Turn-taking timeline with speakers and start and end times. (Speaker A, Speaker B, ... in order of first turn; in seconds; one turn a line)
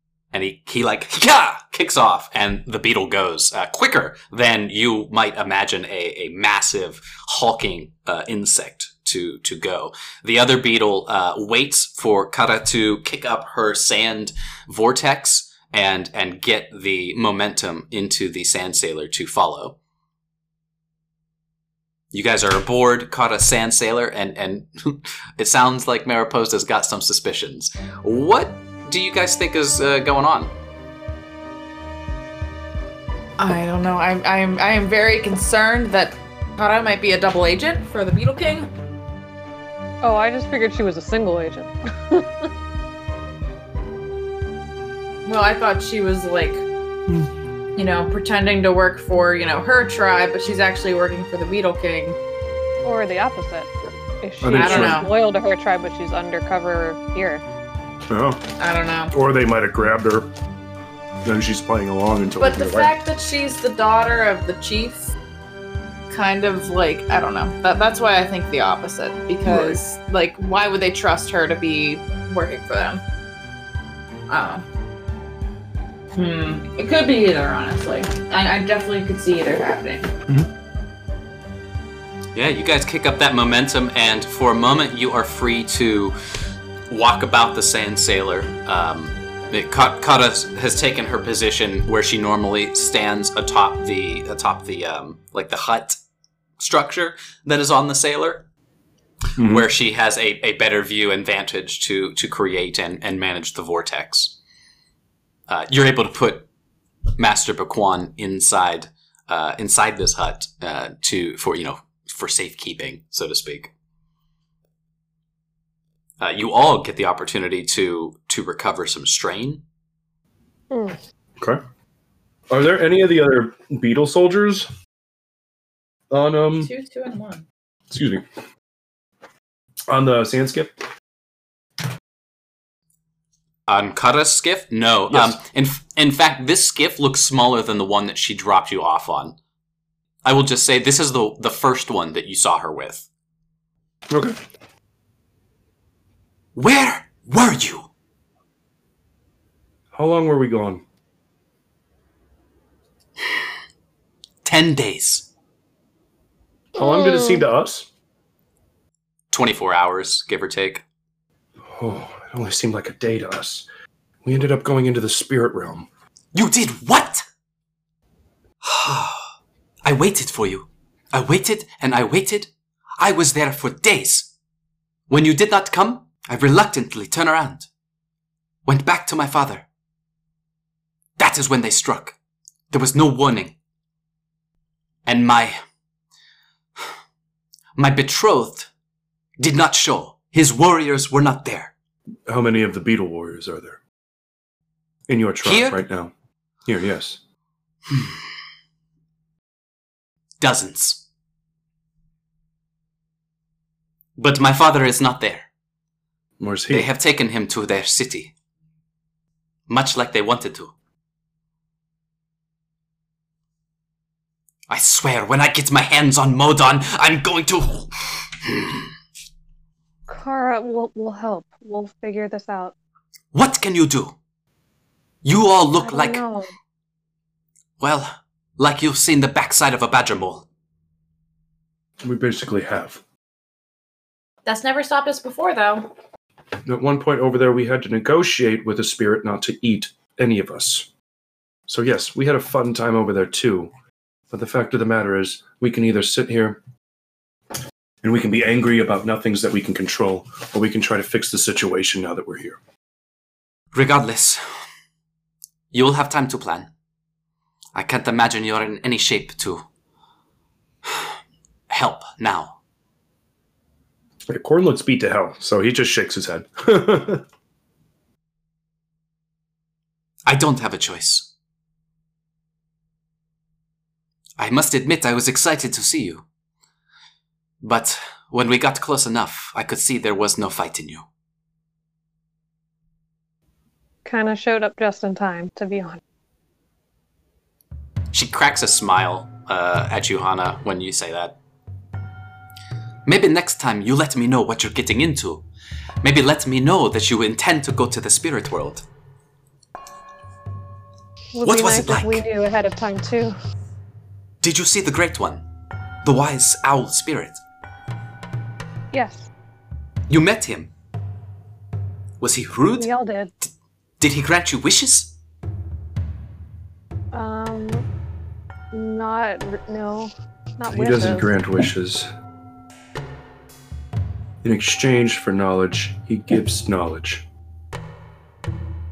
Speaker A: 0.3-19.8
Speaker A: 22.1-30.5
Speaker B: 33.4-38.7
Speaker C: 40.0-42.5
Speaker B: 45.2-46.6
Speaker B: 47.8-52.2
Speaker C: 52.8-53.7
Speaker C: 54.2-57.4
Speaker D: 54.4-55.1
Speaker B: 54.5-55.1
Speaker D: 58.1-58.4
Speaker B: 58.6-59.1
Speaker D: 59.1-60.3
Speaker D: 61.2-62.9
Speaker B: 62.4-65.1
Speaker B: 66.1-73.0
Speaker D: 69.4-69.8
Speaker B: 74.3-74.7
Speaker B: 76.1-80.1
Speaker A: 82.3-86.2
Speaker A: 86.9-96.0
Speaker A: 96.6-98.5
Speaker D: 99.4-99.7
Speaker A: 99.4-104.4
Speaker A: 105.5-106.5
Speaker A: 107.2-113.7
Speaker A: 116.2-119.6
Speaker C: 120.7-121.0
Speaker D: 122.5-124.7
Speaker D: 126.1-126.7
Speaker B: 126.6-127.5
Speaker D: 127.9-128.2
Speaker D: 129.9-130.8
Speaker A: 133.7-139.4
Speaker D: 135.1-135.4
Speaker A: 140.2-143.1
Speaker D: 144.1-144.4
Speaker A: 146.6-147.9
Speaker D: 149.9-150.8
Speaker A: 154.4-155.3
Speaker D: 156.8-157.9
Speaker C: 156.8-157.4
Speaker A: 159.3-160.8
Speaker D: 161.7-163.7
Speaker D: 164.2-165.9
Speaker A: 166.3-167.2
Speaker A: 168.6-169.3
Speaker A: 169.8-174.3
Speaker A: 175.1-177.7
Speaker A: 178.7-179.7
Speaker A: 181.2-182.2
Speaker A: 182.7-183.6
Speaker A: 185.1-185.6
Speaker A: 187.8-188.7
Speaker A: 189.4-191.7
Speaker D: 192.3-193.8
Speaker D: 195.1-196.1
Speaker A: 195.4-195.8
Speaker D: 196.7-197.2
Speaker A: 200.4-201.0
Speaker A: 204.2-205.5
Speaker D: 206.4-206.9
Speaker A: 206.7-208.3
Speaker A: 209.7-210.7
Speaker A: 214.7-218.9
Speaker C: 220.1-222.7
Speaker A: 223.3-224.2
Speaker A: 225.2-226.2
Speaker C: 225.8-226.5
Speaker A: 227.8-230.5
Speaker D: 232.0-233.0
Speaker B: 234.5-235.9
Speaker D: 236.7-240.9
Speaker D: 241.7-243.7
Speaker D: 244.3-246.6
Speaker D: 248.0-252.6
Speaker A: 253.7-254.4
Speaker A: 255.7-256.7
Speaker A: 257.8-259.7
Speaker A: 261.7-262.6
Speaker D: 264.3-267.2
Speaker A: 270.3-271.3
Speaker A: 274.4-276.2
Speaker A: 277.6-281.1
Speaker C: 284.1-286.0
Speaker A: 288.1-291.4
Speaker A: 293.1-295.4
Speaker A: 296.0-298.9
Speaker C: 301.3-303.4
Speaker A: 301.4-302.2
Speaker A: 304.4-305.4
Speaker A: 306.0-307.4
Speaker C: 308.9-309.3
Speaker A: 310.1-310.7
Speaker A: 312.2-312.9
Speaker C: 312.8-313.3
Speaker A: 314.0-315.1
Speaker C: 317.1-317.9
Speaker C: 318.7-321.3
Speaker D: 320.7-322.1
Speaker D: 324.4-327.2